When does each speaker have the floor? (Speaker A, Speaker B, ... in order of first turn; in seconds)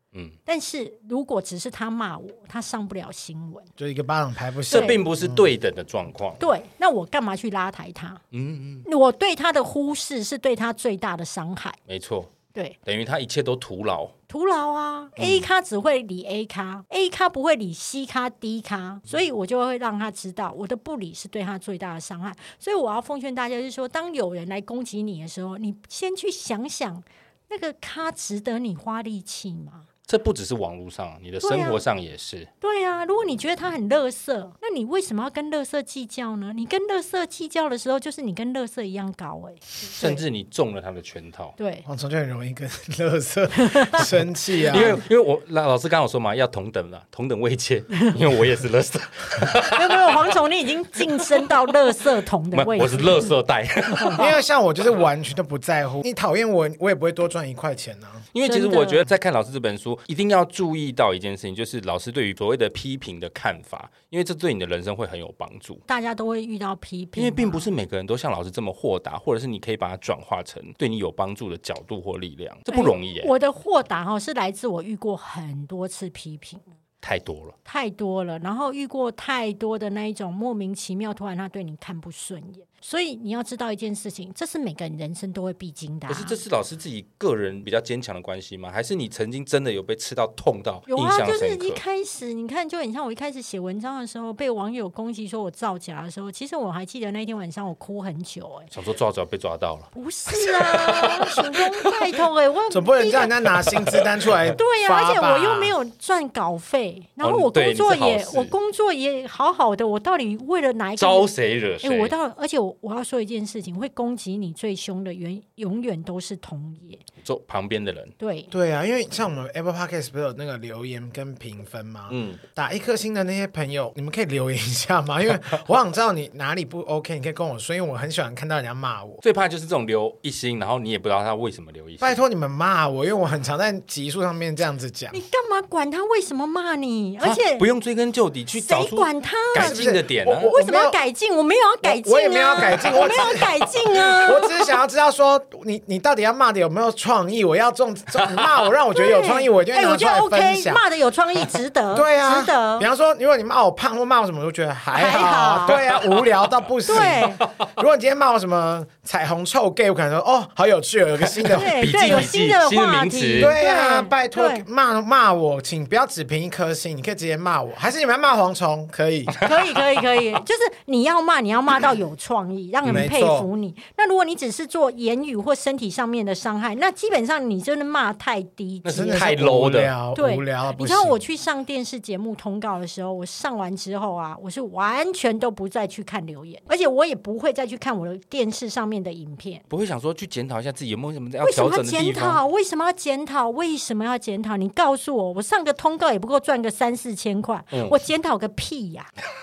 Speaker A: 0.5-3.7, 4.7-5.0, 6.4-8.2, 8.8-11.8, 14.3-29.9, 31.4-31.8, 32.6-40.2, 41.6-41.9, 43.6-44.1, 44.7-45.0, 49.6-53.3, 54.0-54.3, 58.5-59.1, 65.9-67.7, 72.7-76.6, 77.7-86.4, 90.9-98.7, 99.9-103.4, 104.6-117.0, 118.2-118.5, 135.1-137.7, 138.6-139.9, 140.5-144.8, 148.9-152.9, 154.9-155.8, 156.9-157.4, 161.5-164.7, 169.4-179.2, 180.2-189.6, 191.4-199.1
Speaker B: 3.8-5.5, 41.9-45.0, 54.2-58.3, 102.7-105.7, 118.5-129.2, 132.0-135.2, 139.6-141.0, 141.8-150.8, 151.9-162.3, 163.4-169.4, 172.8-173.5, 178.9-181.2
Speaker C: 4.7-6.4, 8.3-8.9, 11.9-12.3, 12.8-14.1, 15.2-15.5, 30.1-32.5, 40.0-41.5, 44.7-50.3, 52.5-54.3, 58.3-65.8, 67.2-73.3, 77.0-77.5, 86.1-91.8, 98.7-101.9, 107.2-108.5, 111.0-112.1, 117.2-118.1, 122.1-122.4, 129.2-132.2, 137.2-140.5, 148.2-148.5, 155.7-156.3, 157.4-157.7, 161.3-163.6, 169.3-170.0, 178.8-179.9, 189.7-192.4, 197.7-198.0